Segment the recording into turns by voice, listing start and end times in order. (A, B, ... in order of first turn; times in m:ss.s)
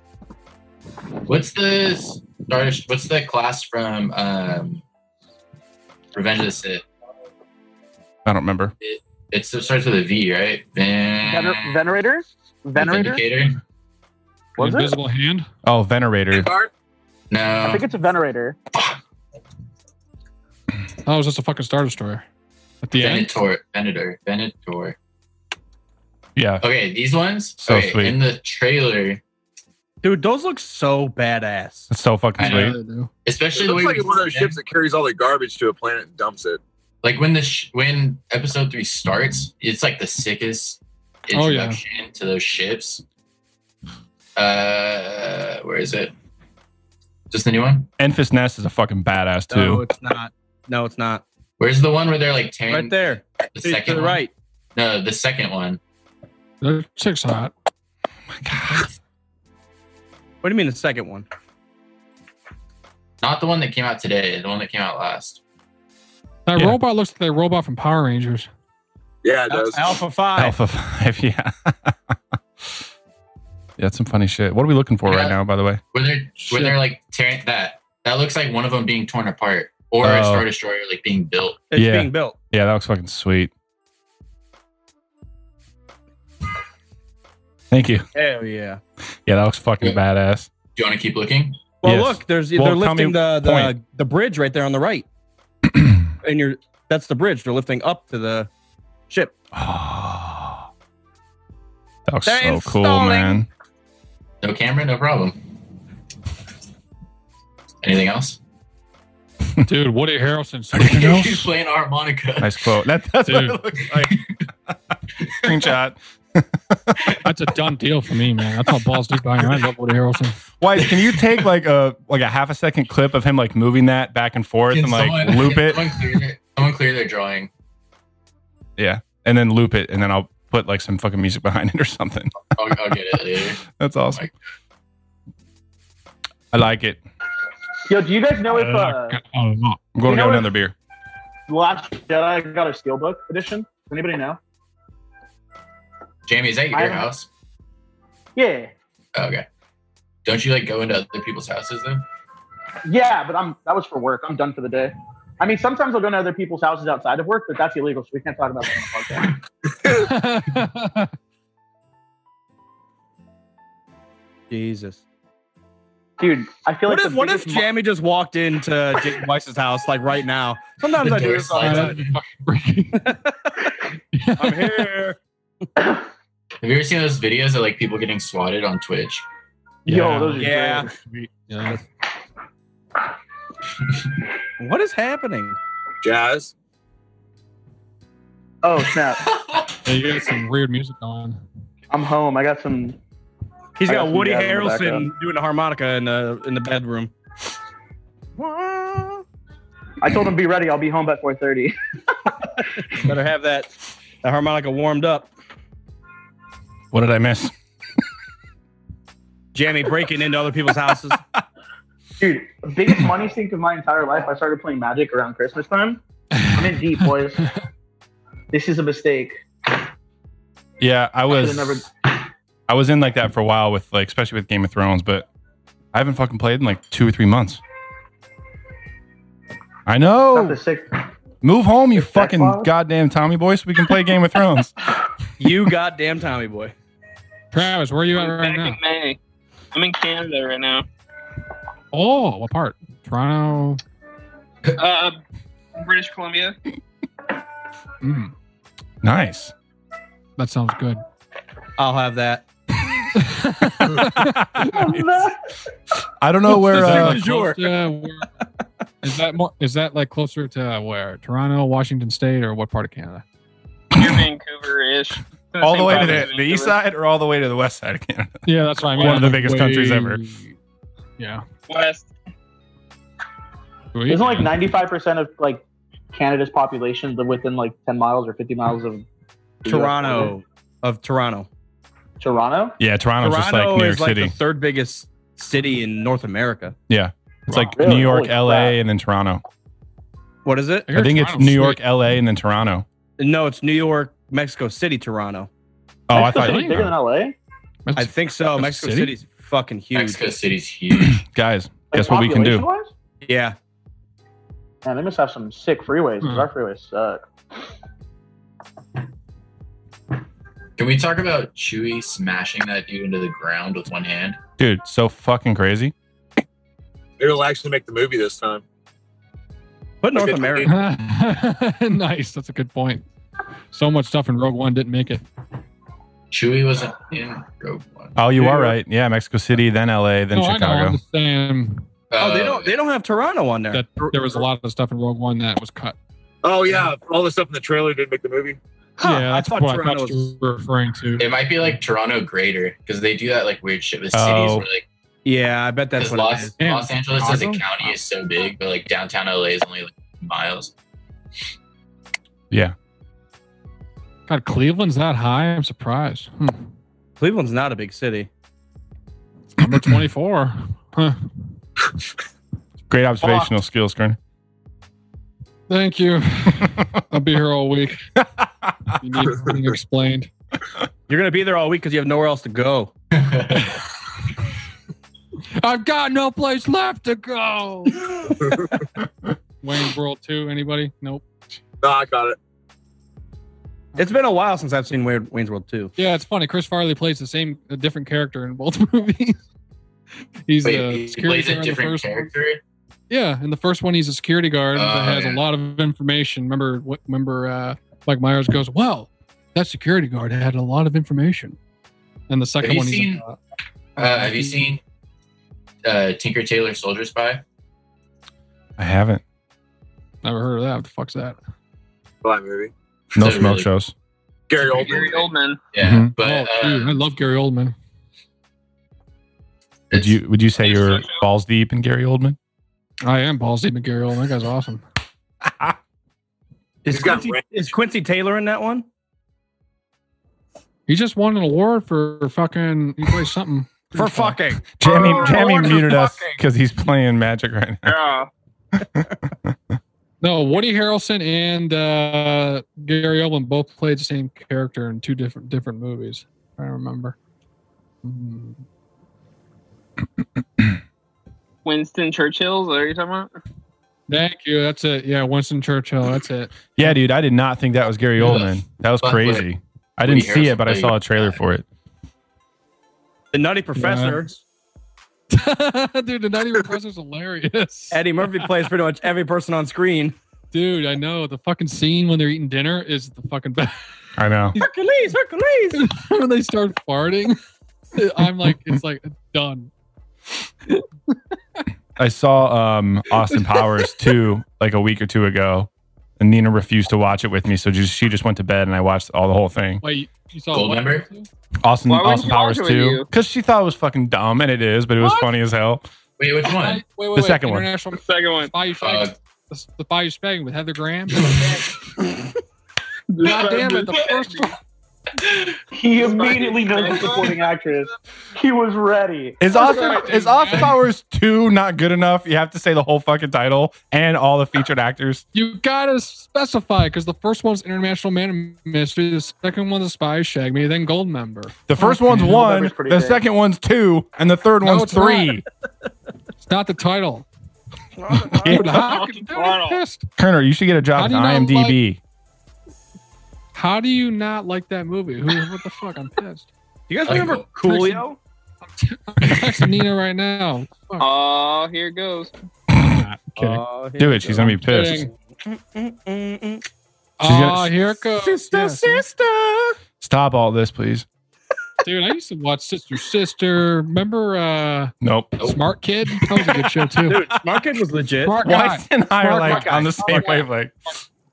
0:01.3-0:04.8 A
0:06.1-0:06.8 A
0:08.2-0:08.7 B
0:08.8-0:11.8 A
0:11.2-0:13.2 C
0:12.8-0:13.6 A
0:14.6-0:15.0 C
0:14.6-0:15.5 D
0:15.6-0:16.5 B
0:16.3-0:16.7 E
0:17.3-0:17.8 A
0:17.6-0:18.6 C
0:21.0-0:22.2 D
0:22.8-0:23.4 D
0:23.0-0:25.0 A
0:26.4-0:26.6 B
0:26.6-0:29.2 A
0:27.6-0:28.2 B
0:30.0-0:31.9 F
0:31.9-0:32.8 B
0:32.4-0:34.6 A
0:32.4-0:33.1 D
0:33.5-0:36.6 E
0:37.0-0:43.0 A
0:41.3-0:41.8 D
0:44.4-0:46.1 A
0:47.3-0:47.9 A
0:48.0-0:49.9 B
0:49.5-0:51.2 F
0:51.6-0:54.2 A
0:52.7-0:54.3 F
0:54.8-0:55.8 A
0:56.6-0:57.5 D
0:58.4-0:58.9 B
1:00.4-1:01.3 F
1:03.2-1:05.4 A
1:06.5-1:08.5 D
1:09.2-1:10.0 E
1:09.5-1:10.5 F
1:10.4-1:12.2 B
1:13.8-1:15.8 B
1:15.0-1:15.4 A
1:15.9-1:21.6 A
1:16.5-1:16.8 D
1:20.0-1:20.5 B
1:21.7-1:22.4 F
1:21.8-1:23.5 B
1:27.7-1:28.1 B
1:28.2-1:28.8 F
1:29.3-1:30.5 B
1:30.8-1:31.6 A
1:31.8-1:35.1 F
1:31.8-1:33.8 B
1:35.8-1:36.0 B
1:36.2-1:38.5 F
1:39.5-1:40.7 B
1:42.1-1:43.5 B
1:42.2-1:43.4 F
1:44.4-1:45.4 A
1:47.8-1:48.4 A
1:49.6-1:51.3 D
1:50.7-1:51.5 B
1:50.9-1:52.6 A
1:52.4-1:54.2 B
1:53.2-1:53.6 D
1:53.9-1:54.3 A
1:55.3-1:57.2 B
1:57.2-2:00.4 D
2:00.6-2:06.2 B
2:00.8-2:01.3 A
2:04.7-2:07.5 A
2:08.8-2:12.4 B
2:12.5-2:14.3 A
2:13.7-2:14.3 B
2:16.5-2:17.0 B
2:17.9-2:19.2 C
2:18.5-2:19.8 D
2:20.0-2:20.7 B
2:20.0-2:20.5 C
2:21.5-2:24.4 C
2:26.3-2:27.3 A
2:26.7-2:27.1 C
2:28.4-2:28.7 C
2:29.2-2:29.5 A
2:30.2-2:32.0 A
2:32.8-2:39.4 C
2:39.9-2:41.1 D
2:44.5-2:45.0 F
2:46.2-2:47.7 C
2:46.9-2:52.0 F
2:51.0-2:52.2 A
2:51.6-2:53.1 D
2:53.0-2:53.6 F
2:54.1-2:54.9 D
2:54.4-2:55.2 F
2:56.6-2:59.2 A
2:59.9-3:00.9 C
2:59.9-3:01.8 D
3:00.4-3:00.9 F
3:04.6-3:05.6 F
3:06.0-3:06.5 E
3:08.6-3:09.2 C
3:09.8-3:11.4 D
3:11.9-3:13.0 C
3:13.8-3:17.1 F
3:13.9-3:15.1 C
3:18.4-3:19.2 F
3:20.0-3:21.8 C
3:22.9-3:23.7 F
3:24.2-3:25.3 F
3:26.9-3:27.5 B
3:29.5-3:31.2 F
3:32.2-3:36.0 C
3:36.3-3:36.8 D
3:36.5-3:37.5 C
3:38.5-3:39.4 C
3:40.8-3:41.8 B
3:41.3-3:41.9 C
3:42.7-3:45.3 B
3:45.9-3:47.6 B
3:49.9-3:50.6 B
3:50.3-3:51.1 C
3:51.4-3:54.7 B
3:52.0-3:52.7 C
3:55.4-3:56.7 F
3:57.5-3:58.8 D
3:58.2-3:59.2 G
3:59.7-4:00.9 G
4:01.9-4:03.8 D
4:04.7-4:05.2 G
4:05.8-4:06.6 G
4:08.0-4:08.3 D
4:09.0-4:09.5 B
4:10.4-4:11.0 D
4:11.8-4:12.5 F
4:13.2-4:14.4 D
4:13.9-4:15.0 B
4:14.6-4:15.4 C
4:16.2-4:17.3 B
4:16.6-4:18.3 D
4:16.6-4:17.9 F
4:19.0-4:23.2 D
4:23.9-4:26.8 G
4:24.0-4:24.2 B
4:25.6-4:30.2 B
4:28.4-4:30.6 D
4:29.0-4:29.2 G
4:31.2-4:31.4 D
4:31.7-4:32.1 G
4:33.9-4:34.5 D
4:34.1-4:39.0 C
4:39.6-4:40.4 C
4:39.7-4:41.5 F
4:42.2-4:42.8 C
4:42.8-4:44.3 B
4:43.2-4:46.8 F
4:46.9-4:49.4 B
4:47.5-4:47.8 D
4:47.8-4:48.8 C
4:50.4-4:50.9 F
4:50.9-4:51.8 D
4:50.9-4:52.9 B
4:53.2-4:55.5 F
4:56.1-4:56.9 B
4:56.1-4:57.4 C
4:56.2-4:56.9 D
4:57.9-4:59.2 D
4:58.0-5:00.2 F
4:59.9-5:01.2 A
5:01.0-5:02.6 B
5:01.9-5:02.9 C
5:03.2-5:03.6 F
5:04.8-5:07.2 C
5:10.8-5:14.4 A
5:14.6-5:15.9 B
5:17.2-5:18.6 E
5:20.0-5:20.7 F
5:20.1-5:20.7 E
5:20.6-5:23.0 D
5:23.7-5:25.2 D
5:26.3-5:28.2 A
5:28.2-5:31.0 B
5:30.3-5:31.9 D
5:32.1-5:32.7 A
5:32.2-5:34.4 F
5:33.7-5:36.0 D
5:36.4-5:38.6 E
5:39.0-5:40.3 F
5:39.0-5:41.3 D
5:41.2-5:44.8 A
5:44.1-5:44.7 B
5:45.2-5:46.5 F
5:46.0-5:50.7 A
5:46.6-5:47.9 D
5:54.3-5:56.7 D
5:57.2-5:58.3 F
5:59.6-6:01.3 D
5:59.6-6:00.0 B
6:02.9-6:04.2 B
6:03.2-6:03.5 F
6:05.7-6:08.0 D
6:09.0-6:10.3 D
6:11.1-6:12.9 F
6:13.1-6:13.8 A
6:15.6-6:18.2 D
6:18.4-6:18.8 E
6:19.6-6:21.2 D
6:21.8-6:22.4 E
6:24.0-6:25.9 F
6:26.0-6:29.4 D
6:30.5-6:32.3 D
6:30.6-6:32.6 A
6:33.1-6:41.6 D
6:34.7-6:35.4 A
6:42.3-6:43.4 D
6:42.6-6:43.2 A
6:44.0-6:44.8 A
6:44.0-6:44.7 D
6:45.8-6:47.4 A
6:48.8-6:49.2 B
6:50.2-6:51.4 D
6:52.2-6:52.7 E
6:53.2-6:53.7 A
6:53.2-6:53.9 B
6:54.5-6:55.3 E
6:54.6-6:55.6 G
6:55.7-6:57.0 A
6:55.8-6:56.1 B
6:56.2-6:57.8 D
6:59.9-7:00.2 A
6:59.9-7:02.4 B
7:00.6-7:01.3 G
7:03.0-7:04.8 D
7:06.8-7:08.9 F
7:06.9-7:07.5 E
7:10.9-7:14.5 D
7:13.9-7:16.4 F
7:14.8-7:17.9 B
7:14.9-7:16.0 E
7:15.1-7:15.4 G
7:17.8-7:18.3 G
7:20.2-7:27.2 D
7:28.0-7:28.6 D
7:31.6-7:33.3 G
7:34.1-7:37.0 D
7:36.8-7:41.7 B
7:38.2-7:39.5 A
7:40.0-7:41.4 A
7:43.3-7:44.3 F
7:43.8-7:44.4 D
7:45.3-7:48.7 D
7:47.9-7:50.2 F
7:50.5-7:53.8 D
7:54.2-7:54.6 B
7:54.6-7:55.8 F
7:55.7-7:57.4 D
7:58.0-7:59.7 D
8:02.0-8:09.8 B
8:03.2-8:03.6 D
8:09.8-8:11.3 D
8:10.5-8:11.1 A
8:11.6-8:15.9 B
8:11.9-8:13.1 G
8:15.0-8:15.3 D
8:16.2-8:16.8 A
8:16.5-8:21.5 D
8:17.2-8:17.7 B
8:17.9-8:18.5 G
8:18.8-8:19.2 A
8:23.1-8:24.5 G
8:23.2-8:24.5 D
8:25.7-8:29.4 C
8:26.0-8:27.4 G
8:29.4-8:35.2 B
8:29.5-8:30.8 D
8:35.3-8:42.5 D
8:41.7-8:45.4 B
8:42.2-8:43.2 C
8:44.6-8:45.4 D
8:46.4-8:47.3 D
8:48.0-8:48.7 F
8:48.3-8:48.8 B
8:48.4-8:50.1 D
8:48.5-8:49.8 G
8:50.2-8:52.0 B
8:50.9-8:51.8 D
8:53.5-8:56.5 D
8:56.9-8:58.2 F
8:57.0-8:57.5 A
8:57.6-8:58.1 D
8:58.7-9:01.1 D
9:01.0-9:02.3 G
9:02.7-9:03.6 D
9:02.8-9:03.0 B
9:03.4-9:06.6 F
9:04.0-9:05.1 B
9:04.4-9:05.1 D
9:07.2-9:09.1 D
9:07.2-9:07.8 B
9:08.3-9:09.4 B
9:08.4-9:09.0 F
9:10.0-9:11.1 B
9:11.8-9:17.3 D
9:15.0-9:15.5 B
9:17.1-9:18.4 F
9:18.2-9:20.5 D
9:18.4-9:20.7 B
9:19.4-9:20.3 F